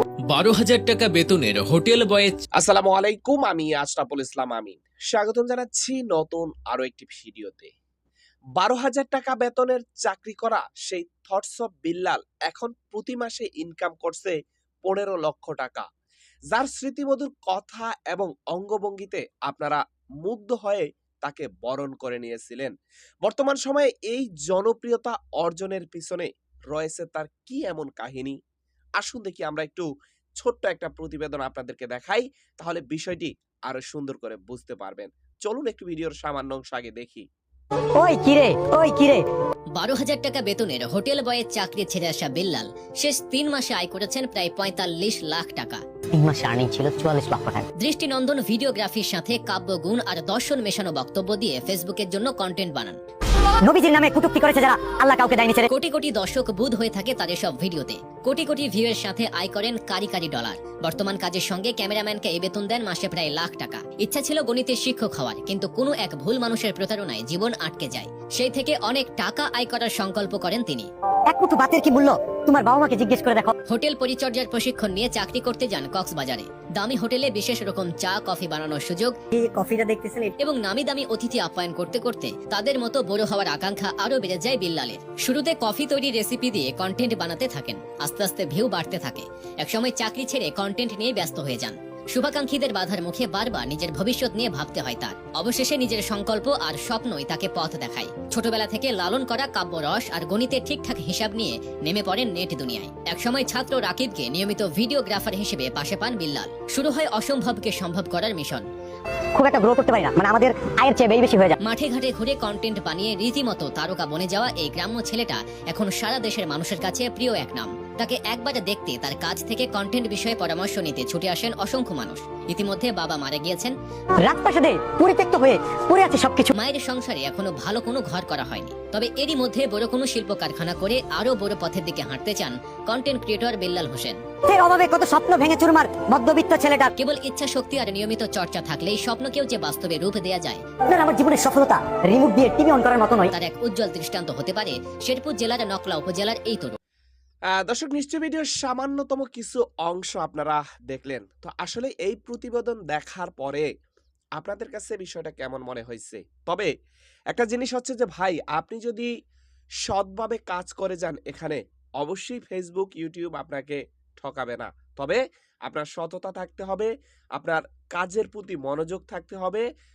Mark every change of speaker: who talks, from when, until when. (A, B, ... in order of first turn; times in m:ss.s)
0:00.3-0:02.4 A
0:02.6-0:07.7 B
0:08.6-0:15.9 B
0:16.5-0:22.7 B
0:23.2-0:28.4 B
0:29.0-0:29.9 B
0:30.4-0:37.3 B
0:38.0-0:39.2 C
0:39.8-0:45.8 D
0:46.1-0:47.6 C
0:47.8-0:53.0 D
0:53.6-0:55.7 C
0:55.7-1:10.9 D
1:11.3-1:13.5 C
1:13.7-1:19.1 D
1:19.4-1:20.3 C
1:20.4-1:48.6 D
1:49.4-1:51.6 C
1:51.6-2:03.7 D
2:04.2-2:06.5 C
2:06.5-2:14.2 D
2:14.4-2:16.9 C
2:17.0-2:20.6 D
2:20.9-2:23.3 C
2:23.3-2:26.8 D
2:27.5-2:33.7 B
2:34.4-2:36.7 B
2:37.3-2:39.1 B
2:39.8-2:49.6 B